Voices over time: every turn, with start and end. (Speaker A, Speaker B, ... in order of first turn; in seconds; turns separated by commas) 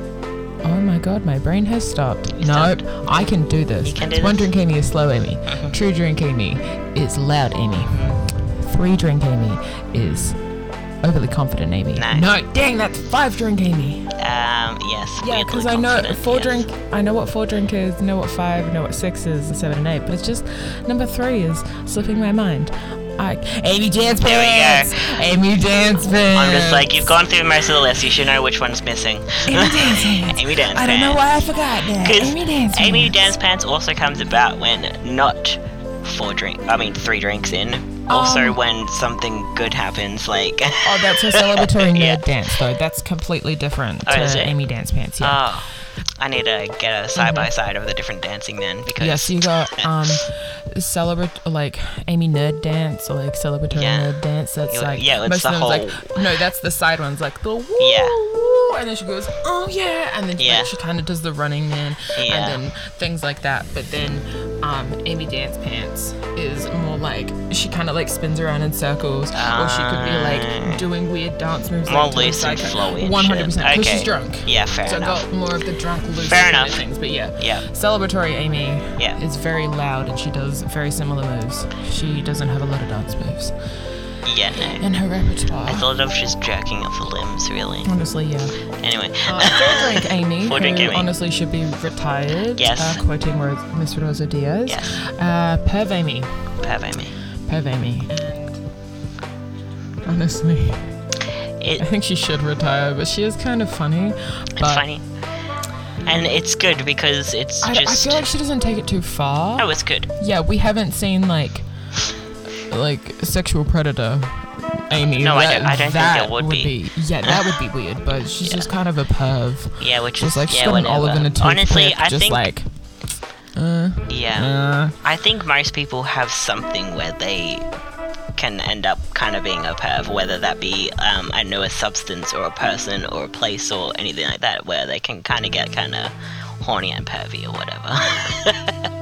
Speaker A: 0.6-10.4, Speaker B: 2.4-3.3, Speaker B: 3.8-4.5, Speaker B: 5.5-5.8, Speaker B: 7.9-8.2, Speaker A: 11.0-14.1, Speaker B: 11.9-12.3, Speaker B: 14.2-16.6, Speaker A: 15.2-27.2, Speaker B: 24.2-25.1, Speaker B: 26.3-31.4, Speaker A: 29.4-33.3, Speaker B: 32.0-42.2, Speaker A: 38.1-38.6, Speaker A: 40.8-45.6, Speaker B: 44.1-44.6, Speaker B: 45.2-50.1, Speaker A: 47.1-47.5, Speaker A: 49.0-83.5, Speaker B: 53.7-56.2, Speaker B: 57.8-58.1, Speaker B: 60.4-60.7, Speaker B: 62.2-62.6, Speaker B: 69.3-70.8, Speaker B: 71.9-75.2, Speaker B: 76.2-76.8, Speaker B: 77.4-77.6, Speaker B: 84.2-84.8, Speaker A: 84.8-85.9, Speaker B: 85.6-87.9, Speaker A: 87.8-88.6, Speaker B: 88.7-91.1, Speaker A: 89.2-96.5, Speaker B: 92.6-93.0, Speaker B: 94.7-95.0, Speaker B: 96.6-97.2, Speaker A: 97.5-98.6, Speaker A: 100.1-101.0, Speaker B: 101.6-101.8, Speaker A: 101.8-104.9, Speaker B: 104.6-105.0, Speaker B: 106.0-108.2, Speaker A: 107.6-111.7, Speaker B: 109.6-110.1, Speaker A: 112.7-122.7, Speaker B: 114.9-117.3, Speaker B: 118.4-118.7, Speaker B: 119.8-122.5, Speaker A: 123.5-125.0, Speaker B: 124.1-127.7, Speaker B: 128.4-138.9